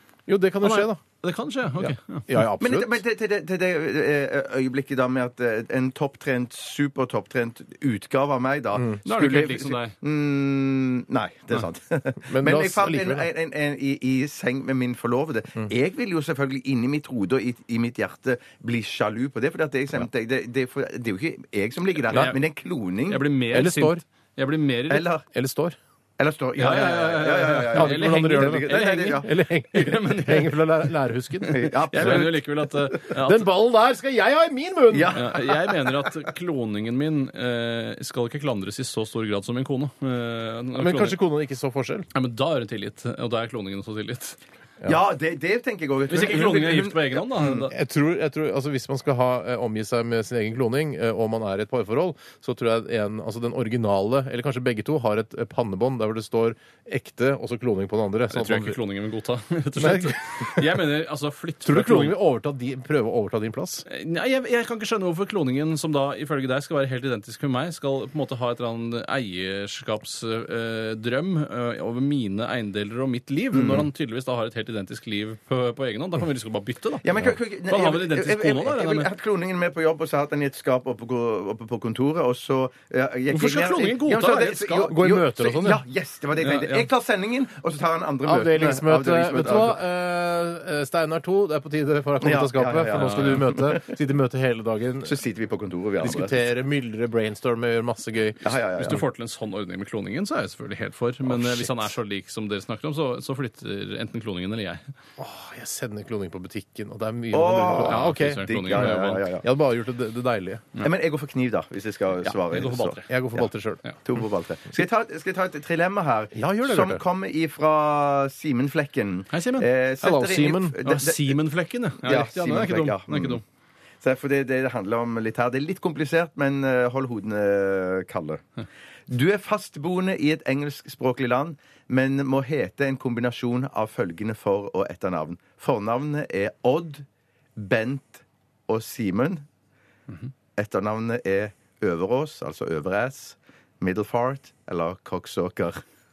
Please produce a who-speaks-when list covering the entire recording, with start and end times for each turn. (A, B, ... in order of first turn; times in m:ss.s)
0:00.3-0:01.0 A
0:00.6-0:02.3 B
0:01.8-0:03.0 A
0:02.6-0:23.2 C
0:08.8-0:09.0 A
0:09.0-0:10.0 B
0:12.3-0:13.3 A
0:22.1-0:22.4 B
0:23.1-0:25.1 B
0:23.5-0:24.0 A
0:24.9-0:25.2 C
0:25.3-0:25.8 A
0:26.2-0:29.3 C
0:26.6-0:30.7 B
0:27.7-0:32.3 A
0:31.5-0:32.8 C
0:31.9-0:33.5 B
0:33.1-0:35.2 A
0:34.9-0:36.1 C
0:35.1-0:41.2 B
0:40.8-0:42.1 A
0:42.1-0:44.4 B
0:44.9-0:47.6 C
0:46.1-0:47.7 B
0:47.6-0:58.8 A
0:58.3-1:02.2 B
0:59.8-1:00.7 A
1:01.6-1:03.8 A
1:03.9-1:17.1 B
1:13.5-1:13.9 C
1:17.0-1:29.8 C
1:17.7-1:19.1 B
1:23.3-1:25.0 B
1:24.9-1:25.8 A
1:26.4-1:26.9 B
1:28.2-1:35.2 A
1:32.2-1:33.9 C
1:33.0-1:33.4 B
1:35.0-1:36.4 C
1:36.0-1:39.0 A
1:38.4-1:39.0 C
1:38.8-1:44.9 B
1:41.2-1:41.9 A
1:45.2-1:50.7 A
1:47.3-1:49.5 C
1:47.8-1:49.2 B
1:50.8-1:53.5 C
1:52.3-1:53.1 B
1:53.1-1:53.8 A
1:54.0-2:01.4 C
1:56.3-1:57.0 A
1:59.3-1:59.7 B
2:00.0-2:00.8 A
2:00.8-2:03.4 B
2:02.0-2:03.4 C
2:04.0-2:08.4 C
2:09.1-2:17.0 C
2:17.6-2:19.4 C
2:20.6-2:25.8 C